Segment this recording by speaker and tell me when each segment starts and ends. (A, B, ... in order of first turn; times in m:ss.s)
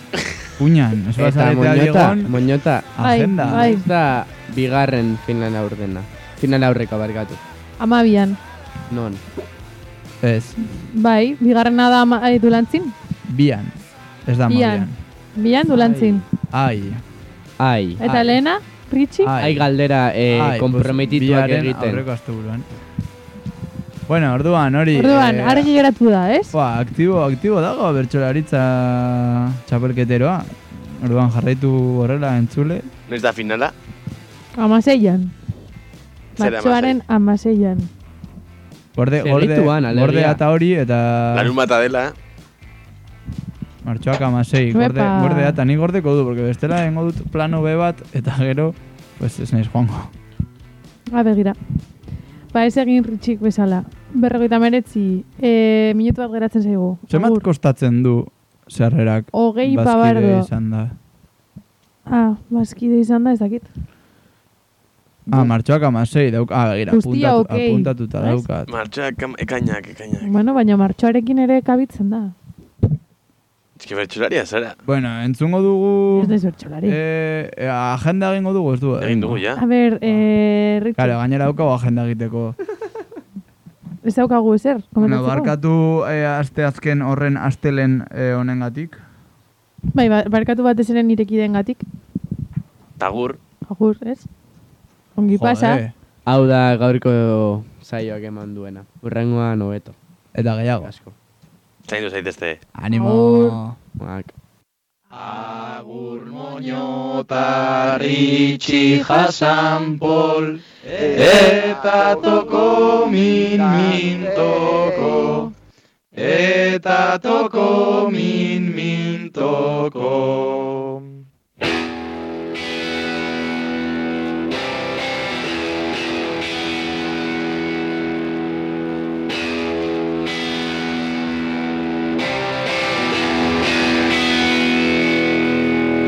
0:00.6-0:02.4 A
0:01.2-0:02.9 B
0:03.0-0:03.7 A
0:03.0-0:03.8 C
0:03.4-0:07.4 B
0:07.8-0:08.4 C
0:08.9-0:09.2 B
0:10.2-0:10.6 A
0:10.9-0:13.0 C
0:13.3-0:15.0 A
0:14.5-0:16.2 C
0:15.7-0:16.2 B
0:16.5-0:17.0 A
0:17.6-0:18.4 B
0:18.0-0:19.3 C
0:19.2-0:19.7 A
0:19.4-0:22.0 B
0:20.3-0:22.7 A
0:24.1-0:25.7 A
0:25.0-0:26.5 C
0:26.5-0:32.9 A
0:33.1-0:33.7 D
0:34.6-0:35.3 C
0:36.4-0:37.0 D
0:36.4-0:37.9 C
0:39.0-0:41.6 A
0:39.2-0:40.4 B
0:41.3-0:42.1 D
0:43.8-0:50.1 A
0:44.7-0:45.6 C
0:51.1-0:51.6 C
0:52.5-0:57.5 C
0:57.1-1:01.0 A
0:59.3-1:00.5 C
1:02.1-1:03.7 C
1:05.3-1:08.7 A
1:06.9-1:08.4 C
1:08.7-1:10.3 D
1:10.2-1:12.3 C
1:13.8-1:14.8 D
1:14.8-1:19.4 A
1:16.2-1:17.0 C
1:19.0-1:19.6 D
1:19.6-1:21.2 C
1:21.0-1:22.6 A
1:24.0-1:25.5 C
1:25.0-1:29.0 A
1:29.9-1:31.8 C
1:33.0-1:33.4 D
1:33.7-1:34.3 C
1:35.2-1:35.8 C
1:35.3-1:35.9 A
1:36.3-1:40.0 B
1:40.4-1:40.9 A
1:40.8-1:41.2 B
1:41.9-1:42.6 D
1:42.8-1:43.8 A
1:42.9-1:43.6 C
1:44.0-1:44.3 B
1:45.1-1:55.5 E
1:56.1-2:01.0 E